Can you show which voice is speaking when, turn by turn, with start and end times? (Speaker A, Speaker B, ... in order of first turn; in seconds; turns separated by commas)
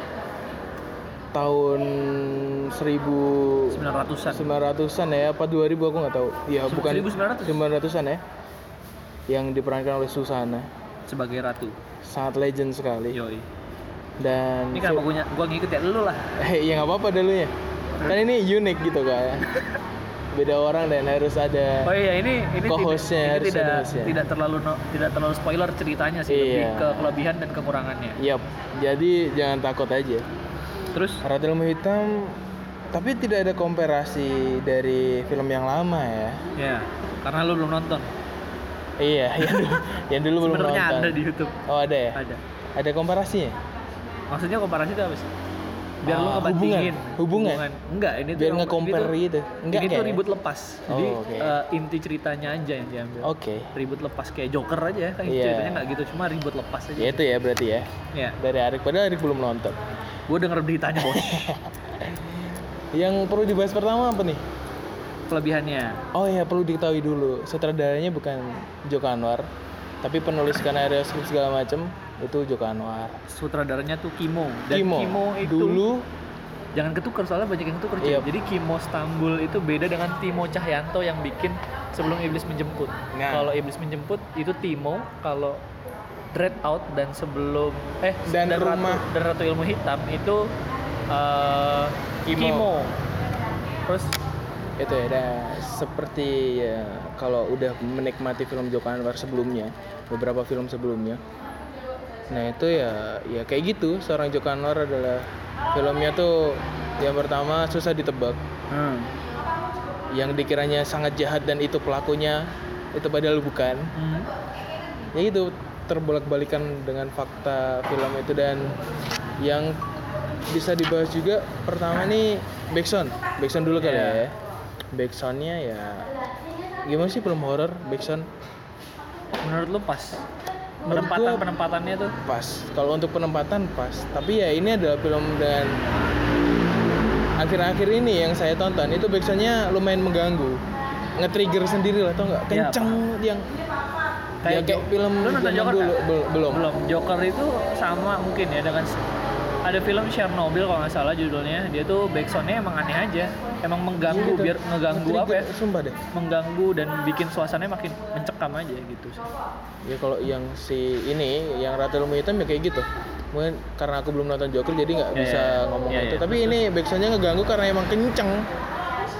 Speaker A: 1.3-8.2, Speaker B: 3.7-4.5, Speaker B: 6.6-7.6, Speaker A: 9.3-10.7, Speaker B: 11.1-11.8, Speaker A: 12.0-13.2, Speaker B: 13.1-13.4, Speaker A: 14.2-15.1, Speaker B: 14.7-16.3, Speaker A: 16.4-19.5, Speaker A: 20.3-21.9, Speaker B: 21.8-28.2, Speaker A: 22.6-24.2, Speaker A: 26.3-27.1, Speaker A: 28.2-30.2, Speaker B: 30.9-31.2, Speaker A: 31.2-32.4, Speaker A: 32.9-36.4, Speaker B: 36.5-38.1, Speaker A: 39.0-42.2, Speaker B: 39.4-39.7, Speaker B: 40.4-41.5, Speaker B: 42.1-42.4, Speaker A: 42.8-43.5, Speaker B: 44.3-45.3, Speaker B: 46.0-49.1, Speaker A: 46.0-47.7, Speaker A: 48.3-50.2, Speaker B: 49.7-57.2, Speaker A: 50.9-51.6, Speaker A: 53.2-53.7, Speaker A: 55.2-55.9, Speaker A: 57.0-57.9, Speaker A: 58.4-59.8, Speaker B: 60.3-61.5, Speaker A: 61.0-62.3, Speaker A: 62.9-64.4, Speaker B: 65.3-66.0, Speaker A: 66.1-69.5, Speaker A: 70.0-73.2, Speaker B: 73.3-75.8, Speaker A: 74.7-76.0, Speaker B: 76.7-85.6, Speaker A: 78.0-78.3, Speaker A: 83.1-83.5, Speaker B: 86.3-90.5, Speaker A: 88.2-89.1, Speaker B: 91.1-93.0, Speaker A: 92.3-92.7, Speaker B: 93.9-94.1, Speaker A: 94.8-101.2, Speaker A: 102.3-108.4, Speaker B: 108.7-109.1, Speaker A: 110.1-112.4, Speaker A: 112.9-113.8, Speaker B: 113.9-114.3, Speaker A: 115.1-118.7, Speaker A: 119.4-119.7, Speaker A: 120.5-124.3, Speaker B: 123.8-124.2, Speaker A: 124.9-126.1, Speaker A: 126.8-128.3, Speaker B: 129.4-130.2, Speaker A: 130.8-131.4, Speaker B: 130.9-132.1, Speaker A: 132.2-135.8, Speaker A: 137.4-140.6, Speaker A: 141.2-143.5, Speaker B: 142.5-143.0, Speaker B: 144.4-149.0, Speaker A: 144.4-146.6, Speaker B: 149.6-155.5, Speaker A: 154.0-156.0, Speaker B: 156.1-159.2, Speaker A: 159.8-168.5, Speaker B: 165.1-166.6